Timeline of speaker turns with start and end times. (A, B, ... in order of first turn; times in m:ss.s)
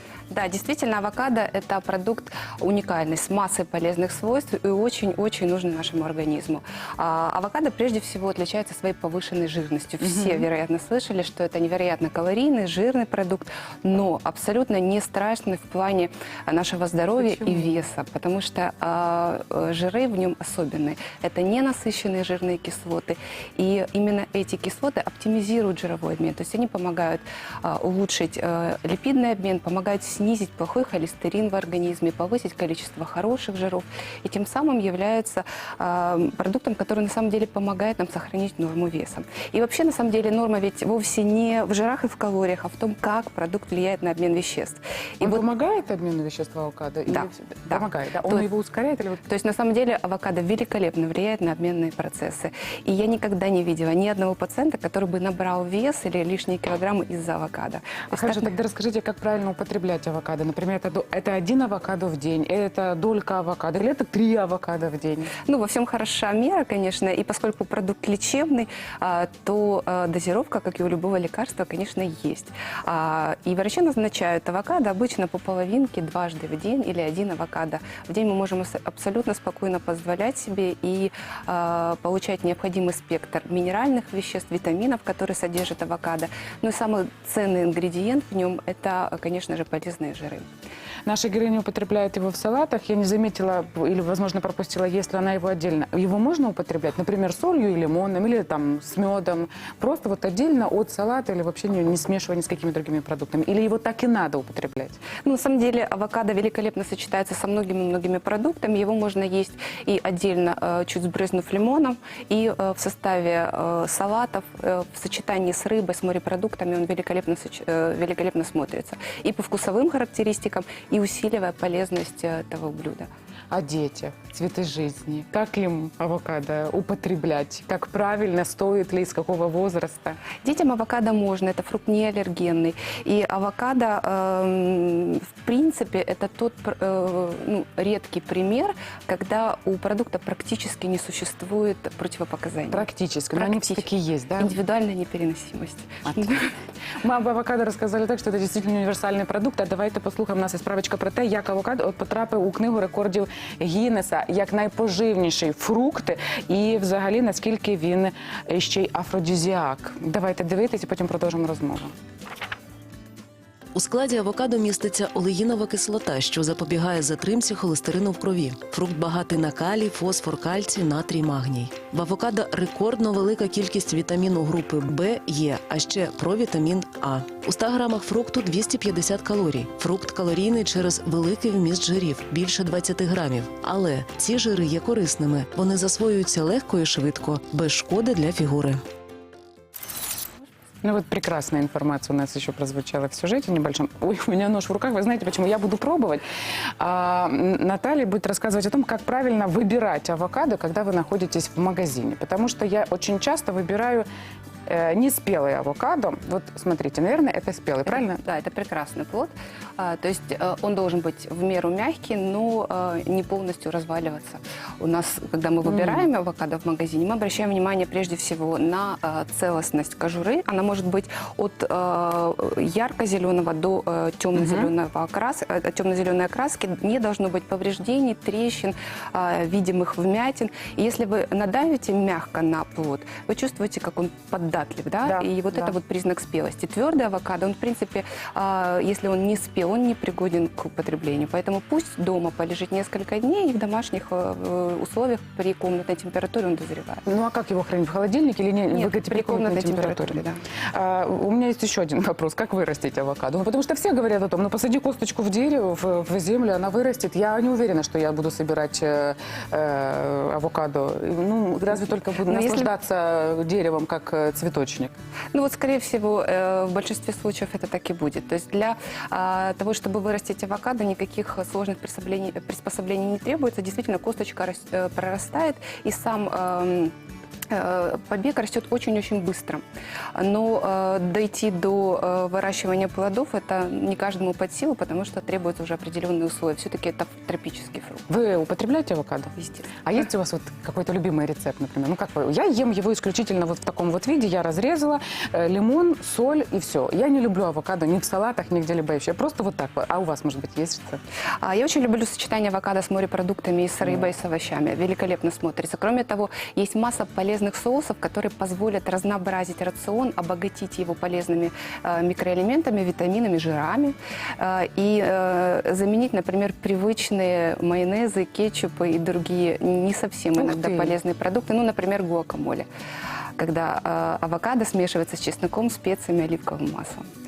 0:00.3-0:45.4 A
0:10.0-0:10.5 B
0:17.2-0:17.8 B
0:45.2-0:49.2 B
0:47.1-0:48.5 A
0:49.2-0:58.5 A
0:58.1-1:05.3 B
1:05.4-1:30.4 A
1:31.0-1:45.0 B
1:45.2-2:03.1 A
2:03.5-2:10.2 B
2:10.4-2:23.9 A
2:22.7-2:24.5 B
2:24.4-2:26.5 A
2:27.0-2:41.9 B
2:43.7-3:08.7 C
3:10.8-3:16.2 B
3:16.8-3:24.0 B
3:24.7-3:28.2 B
3:27.8-4:07.0 A
3:35.6-3:36.0 B
3:44.3-3:44.7 B
3:55.0-3:55.7 B
4:07.0-4:10.2 B
4:08.7-4:10.4 A
4:10.7-4:24.9 B
4:22.2-4:22.7 A
4:25.3-4:36.9 A
4:37.5-4:39.6 A
4:40.1-4:48.0 A
4:48.1-5:01.0 B
4:49.4-4:49.7 A
5:01.4-5:22.6 A
5:20.4-5:20.9 B
5:23.4-5:27.1 A